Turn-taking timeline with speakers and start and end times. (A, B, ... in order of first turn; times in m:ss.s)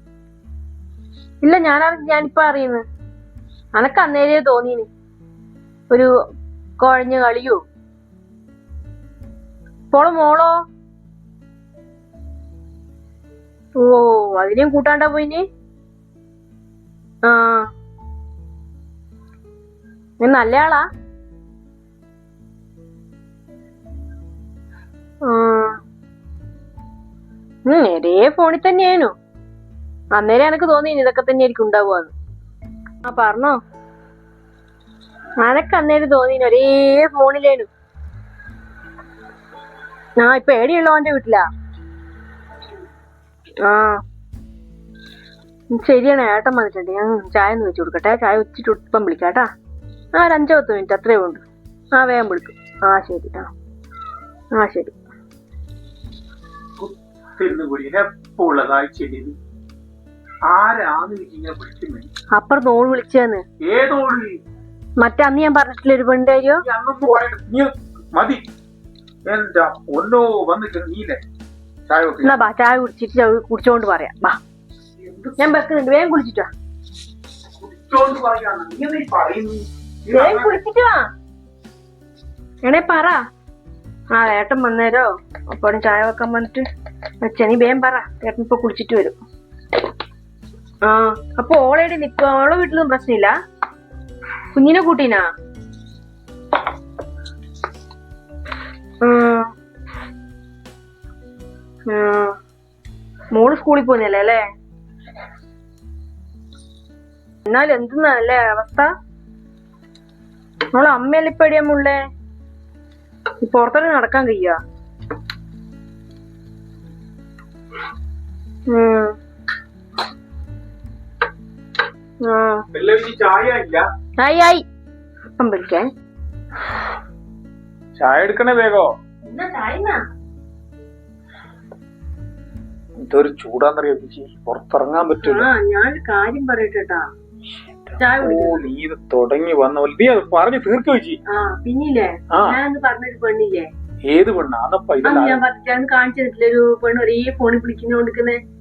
0:01.4-0:02.8 A
0:03.7-0:04.9 A
0:06.8-0:07.6 A
0:09.9-0:10.5 A
0:13.8-0:15.4 A
0:17.2-0:17.7 A
0:20.2-0:20.8 A
0:25.2-0:25.8 A
0:27.7-0:29.1 A
0:30.1-0:32.1 A
0:33.0-0:33.6 A
0:35.4-0:37.7 A
0:40.2-0:41.4 A
0:43.6-0:43.9 A
0:45.7-0:49.5 A
0:50.1-0:53.5 A
0:54.5-0:54.9 A
0:56.8-0:59.3 B
1:00.5-1:02.0 B
1:02.3-1:03.4 A
1:03.6-1:04.3 B
1:05.0-1:07.2 A
1:06.6-1:08.4 B
1:09.2-1:11.2 B
1:11.9-1:12.4 B
1:12.2-1:14.4 A
1:15.0-1:15.5 B
1:15.4-1:16.5 A
1:17.6-1:20.6 B
1:20.1-1:21.1 A
1:22.6-1:23.2 A
1:24.1-1:26.6 A
1:27.2-1:29.2 A
1:30.8-1:33.3 A
1:34.5-1:35.2 A
1:39.0-1:39.5 A
1:41.9-1:42.3 A
1:43.3-1:44.4 A
1:47.4-1:48.9 A
1:50.7-1:52.0 A
1:53.4-1:54.6 A
1:58.7-1:59.1 A
2:02.2-2:02.6 A
2:02.7-2:03.8 B
2:04.2-2:04.6 A
2:05.3-2:05.8 A
2:08.0-2:08.9 B
2:09.2-2:10.0 A
2:13.0-2:15.5 B
2:15.2-2:17.1 A
2:17.9-2:21.2 B
2:18.0-2:18.6 A
2:21.3-2:23.7 A
2:24.0-2:25.4 B
2:25.0-2:28.4 A